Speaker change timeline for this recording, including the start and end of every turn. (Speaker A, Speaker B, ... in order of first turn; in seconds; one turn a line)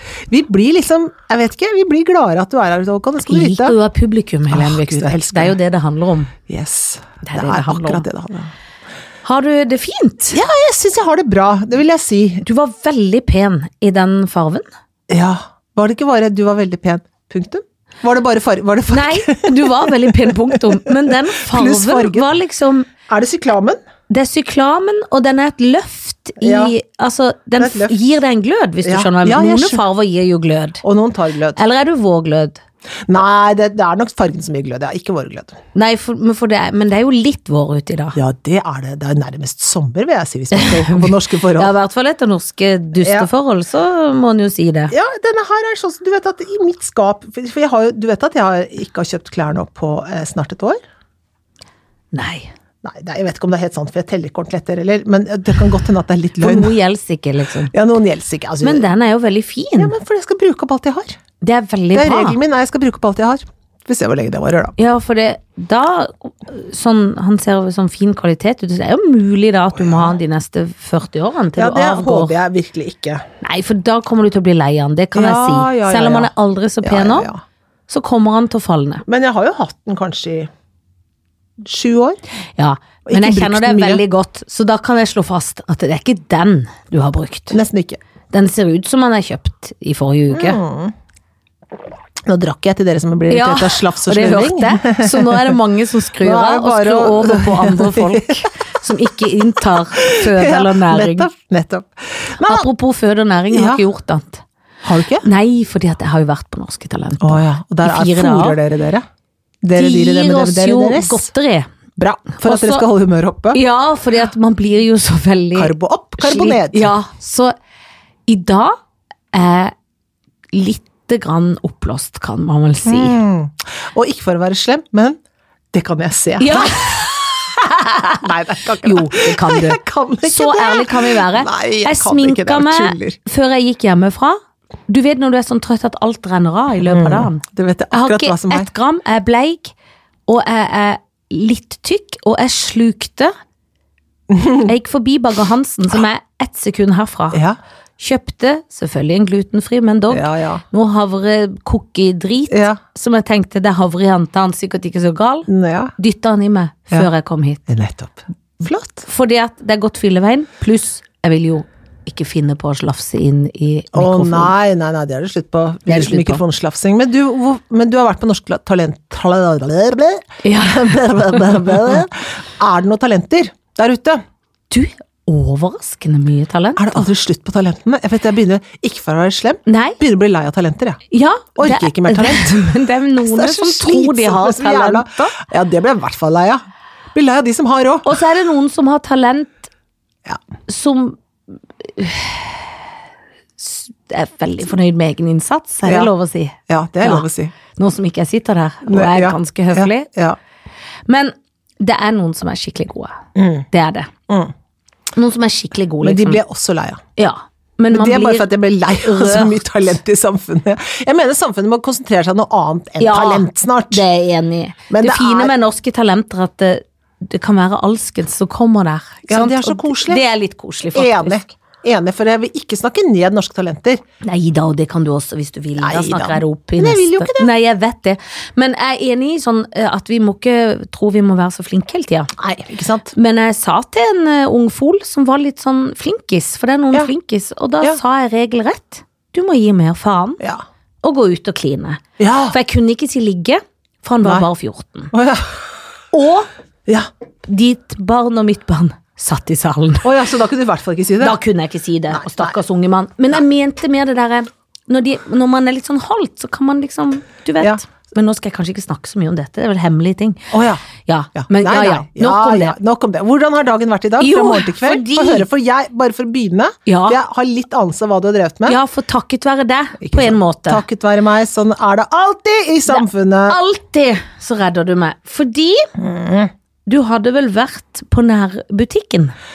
Speaker A: 0.3-3.8
Speaker B: 3.2-6.3
Speaker A: 4.5-5.6
Speaker A: 6.5-8.5
Speaker B: 7.2-8.0
Speaker B: 9.2-10.4
Speaker A: 10.3-12.4
Speaker B: 12.4-14.7
Speaker A: 15.1-22.3
Speaker B: 18.9-22.9
Speaker A: 23.1-23.8
Speaker B: 24.1-30.8
Speaker A: 26.4-26.7
Speaker A: 27.6-28.1
Speaker A: 28.8-29.8
Speaker A: 30.8-31.6
Speaker B: 31.6-32.6
Speaker A: 33.1-35.6
Speaker B: 35.7-38.2
Speaker A: 38.1-41.7
Speaker B: 40.5-44.9
Speaker A: 43.0-43.3
Speaker A: 44.9-50.8
Speaker B: 52.1-52.5
Speaker A: 52.8-56.7
Speaker B: 56.4-57.7
Speaker A: 57.7-58.9
Speaker B: 58.6-59.9
Speaker A: 59.8-61.2
Speaker B: 61.4-62.4
Speaker A: 61.9-64.7
Speaker B: 64.8-72.3
Speaker A: 69.8-70.1
Speaker A: 71.5-73.2
Speaker B: 73.4-77.3
Speaker A: 75.1-76.3
Speaker A: 76.8-77.4
Speaker B: 77.9-79.0
Speaker A: 79.1-80.5
Speaker A: 81.6-82.2
Speaker B: 82.6-87.6
Speaker A: 83.0-84.0
Speaker A: 87.5-88.0
Speaker B: 88.3-90.6
Speaker A: 90.3-90.9
Speaker A: 92.2-95.5
Speaker B: 93.3-101.3
Speaker A: 96.2-98.8
Speaker A: 99.4-102.7
Speaker B: 102.4-104.4
Speaker A: 103.5-103.8
Speaker A: 104.8-105.3
Speaker B: 105.2-108.6
Speaker A: 107.2-109.0
Speaker A: 109.6-111.3
Speaker B: 109.7-111.7
Speaker A: 112.0-113.6
Speaker B: 112.4-112.8
Speaker B: 113.5-117.5
Speaker A: 115.5-116.9
Speaker B: 118.3-118.8
Speaker B: 119.3-119.7
Speaker B: 120.5-123.2
Speaker A: 122.8-125.2
Speaker A: 125.7-133.2
Speaker B: 126.4-127.1
Speaker B: 128.8-139.7
Speaker A: 136.9-138.7
Speaker B: 140.3-143.3
Speaker A: 144.3-144.7
Speaker B: 144.6-147.4
Speaker A: 147.3-147.6
Speaker B: 148.0-157.6
Speaker A: 150.1-150.6
Speaker A: 152.5-152.8
Speaker A: 155.5-155.9
Speaker A: 157.7-159.1
Speaker B: 159.1-164.5
Speaker A: 163.9-174.2
Speaker B: 165.8-166.4
Speaker B: 170.4-171.4
Speaker B: 174.7-177.0
Speaker A: 176.8-181.0
Speaker B: 179.7-180.0
Speaker B: 181.1-185.4
Speaker A: 181.6-186.6
Speaker A: 187.1-188.2
Speaker B: 188.0-189.7
Speaker B: 190.7-191.2
Speaker B: 191.8-192.7
Speaker B: 193.6-200.1
Speaker A: 195.8-196.1
Speaker A: 196.7-197.5
Speaker A: 198.9-200.4
Speaker B: 201.1-203.2
Speaker A: 203.3-203.7
Speaker B: 203.7-204.1
Speaker B: 205.1-206.4
Speaker A: 206.0-207.0
Speaker B: 207.2-209.6
Speaker A: 207.9-214.0
Speaker B: 213.0-221.5
Speaker A: 214.9-215.5
Speaker A: 219.3-220.2
Speaker A: 220.9-224.0
Speaker B: 224.2-232.3
Speaker A: 225.8-227.5
Speaker A: 232.4-233.1
Speaker B: 233.1-240.4
Speaker B: 241.0-245.1
Speaker A: 242.2-242.6
Speaker A: 245.1-245.7
Speaker B: 246.1-246.5
Speaker B: 247.5-250.1
Speaker A: 250.0-251.4
Speaker B: 251.2-262.7
Speaker A: 252.1-252.5
Speaker A: 260.5-260.8
Speaker A: 261.4-268.8
Speaker B: 264.2-265.5
Speaker B: 266.9-267.2
Speaker B: 268.6-270.8
Speaker A: 270.0-273.6
Speaker B: 272.9-275.9
Speaker A: 276.0-276.5
Speaker B: 276.9-279.3